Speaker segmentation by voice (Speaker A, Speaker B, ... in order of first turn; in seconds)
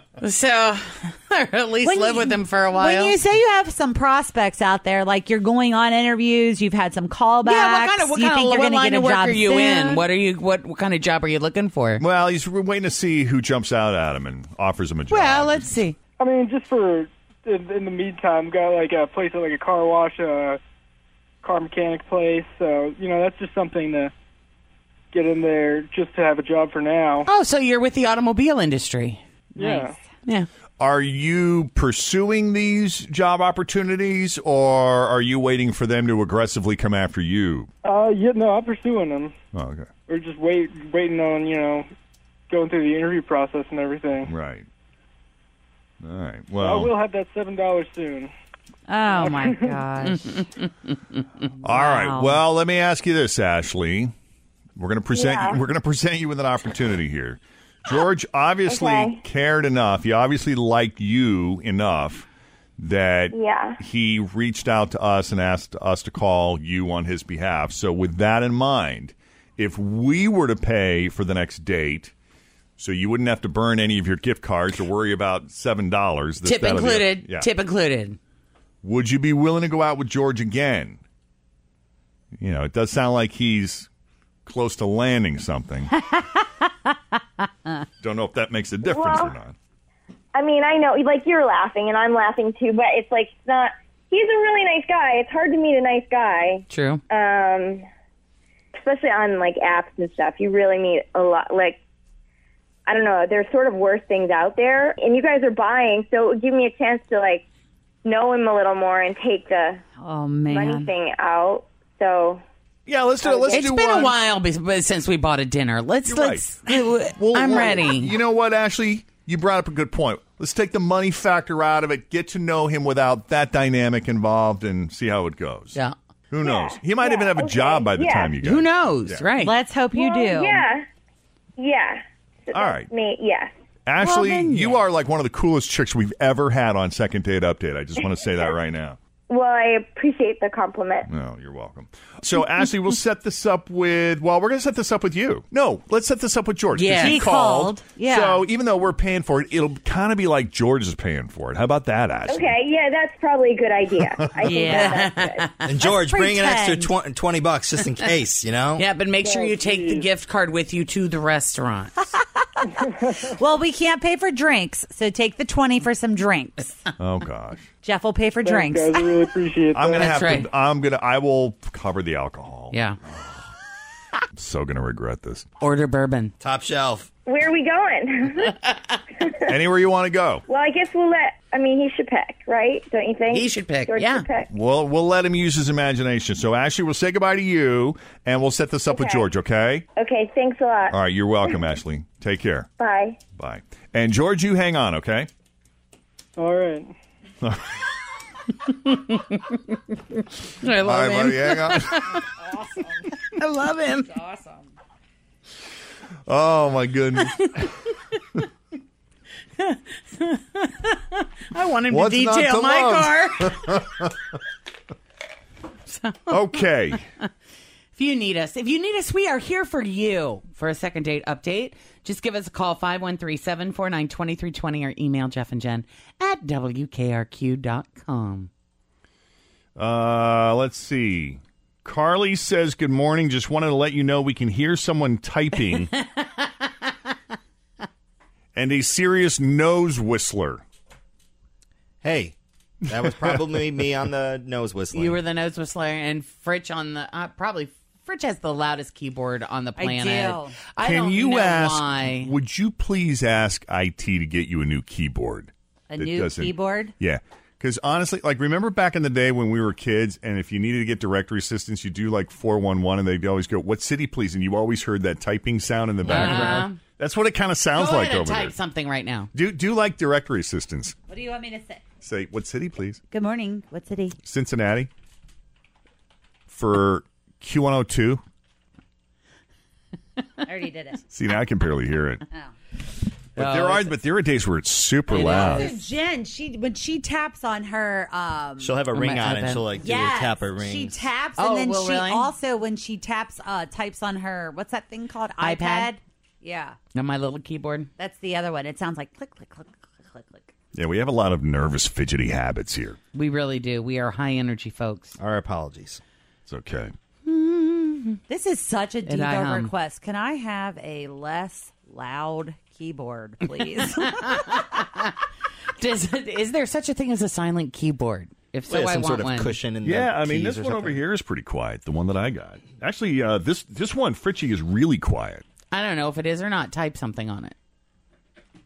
Speaker A: 0.2-3.2, 7.5-12.0, 15.1-16.0, 27.3-30.5, 50.2-50.7, 76.4-78.2, 96.7-97.0, 113.5-118.1, 128.4-129.5, 146.7-147.2, 154.7-155.7, 158.8-162.0, 169.9-170.5, 172.7-173.0, 175.6-176.3, 183.3-184.3, 198.8-199.8, 200.6-204.6, 209.6-213.7, 215.9-216.7, 217.9-228.5, 236.0-236.7, 244.9-252.3, 266.0-266.8, 267.8-269.3, 283.4-283.9, 285.1-285.8, 288.9-289.7, 291.4-292.3, 295.4-295.9, 296.9-297.9, 303.1-305.2, 307.2-308.2, 309.1-309.7, 313.8-315.1, 315.8-319.6, 325.7-327.6
Speaker B: 1.8-10.0, 48.9-50.5, 51.6-52.4, 86.0-86.9, 110.0-110.9, 129.4-130.6, 134.0-134.8, 147.0-148.4, 154.4-155.1, 155.8-156.9, 162.1-166.8, 167.8-169.1, 249.8-250.6, 255.9-256.9, 271.1-271.8, 273.1-274.2, 280.4-281.0, 285.2-288.8, 289.8-296.8, 298.0-300.5, 308.3-314.6
Speaker C: 12.0-15.8, 30.8-37.7, 39.5-39.9, 44.3-44.7, 46.0-46.9, 51.6-54.1, 54.8-62.3, 62.8-72.1, 72.8-77.5, 78.8-81.0, 82.4-83.9, 84.5-85.9, 88.0-89.5, 112.9-114.2, 116.0-116.5, 117.1-125.8, 126.3-129.3, 132.5-132.9, 133.9-139.0, 141.1-152.6, 154.1-154.5, 167.0-167.7, 169.7-173.4, 174.4-175.5, 179.5-180.4, 184.5-189.9, 190.9-192.7, 193.4-195.3, 197.4-197.8, 200.8-202.2, 206.3-207.7, 211.9-214.2, 216.3-217.0, 229.8-235.9, 238.6-240.6, 242.9-243.6, 250.8-268.6, 269.3-271.0, 272.0-273.0, 274.2-274.9, 276.5-278.2, 281.1-282.2, 283.4-285.7, 300.7-303.0, 306.5-306.9, 319.8-325.4
Speaker D: 16.2-20.6, 21.4-24.1, 25.1-27.3, 29.6-30.0, 37.8-39.3, 40.1-41.9, 42.5-44.3, 46.6-48.3, 49.1-49.8, 159.2-160.1, 162.8-163.4, 168.4-170.3, 196.4-196.9
Speaker E: 55.1-55.6, 58.7-59.2, 63.3-63.8, 88.8-89.3, 90.3-97.8, 98.8-101.8, 102.9-107.5, 108.0-109.8, 110.5-112.4, 113.2-113.7, 126.4-128.4, 129.9-130.9, 131.6-133.5, 139.3-141.1, 152.3-155.5, 177.3-178.6, 179.2-179.5, 180.5-184.5, 188.9-189.3, 190.0-191.6, 192.8-193.2
Speaker F: 155.6-158.9, 176.4-177.1, 242.0-242.3, 242.9-245.2, 288.6-291.0, 305.2-306.0, 318.7-321.0